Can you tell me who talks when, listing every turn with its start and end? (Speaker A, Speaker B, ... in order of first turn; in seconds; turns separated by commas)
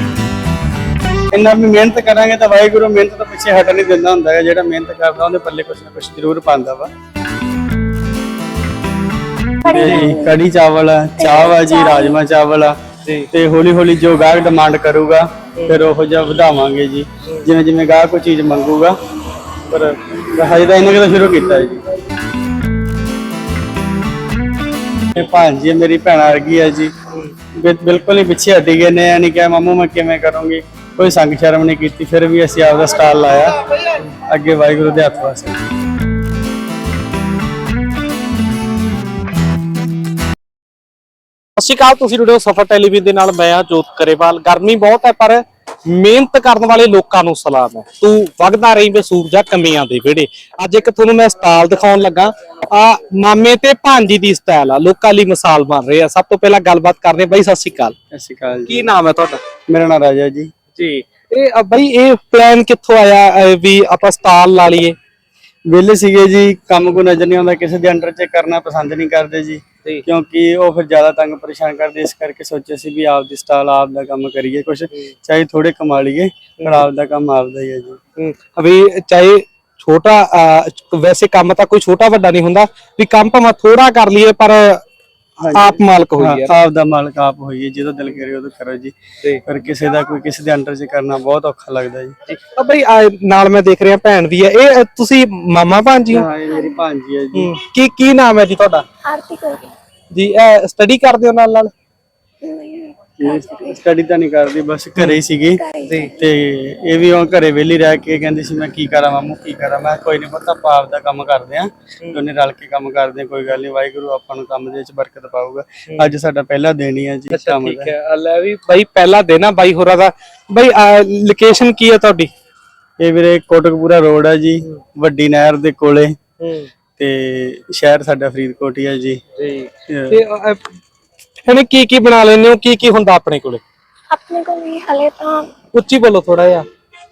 Speaker A: 1.3-6.9, Speaker B: 9.6-10.4, Speaker A: 9.7-12.8, Speaker C: 9.8-10.1, Speaker B: 11.2-12.2, Speaker A: 13.3-18.9, Speaker A: 19.7-21.8, Speaker A: 25.1-26.9, Speaker A: 27.6-33.6, Speaker A: 34.3-35.6, Speaker C: 41.6-58.0, Speaker A: 58.1-58.9, Speaker C: 58.7-59.4, Speaker A: 59.7-60.5, Speaker C: 60.8-65.0, Speaker A: 65.7-78.0, Speaker C: 76.6-76.9, Speaker C: 78.2-84.8, Speaker A: 85.4-88.9, Speaker C: 85.5-86.5, Speaker A: 89.5-92.2, Speaker C: 92.3-96.3, Speaker A: 96.1-97.5, Speaker C: 97.3-98.8, Speaker B: 99.0-99.7, Speaker C: 100.1-101.7, Speaker B: 102.4-103.8, Speaker A: 103.2-105.6, Speaker B: 105.6-106.2, Speaker A: 106.2-117.9, Speaker C: 117.3-122.3, Speaker A: 123.0-126.1, Speaker C: 126.4-126.7, Speaker A: 127.0-129.2, Speaker C: 129.4-130.6, Speaker A: 129.9-130.2, Speaker C: 131.4-133.6, Speaker B: 134.1-135.5, Speaker C: 135.7-136.7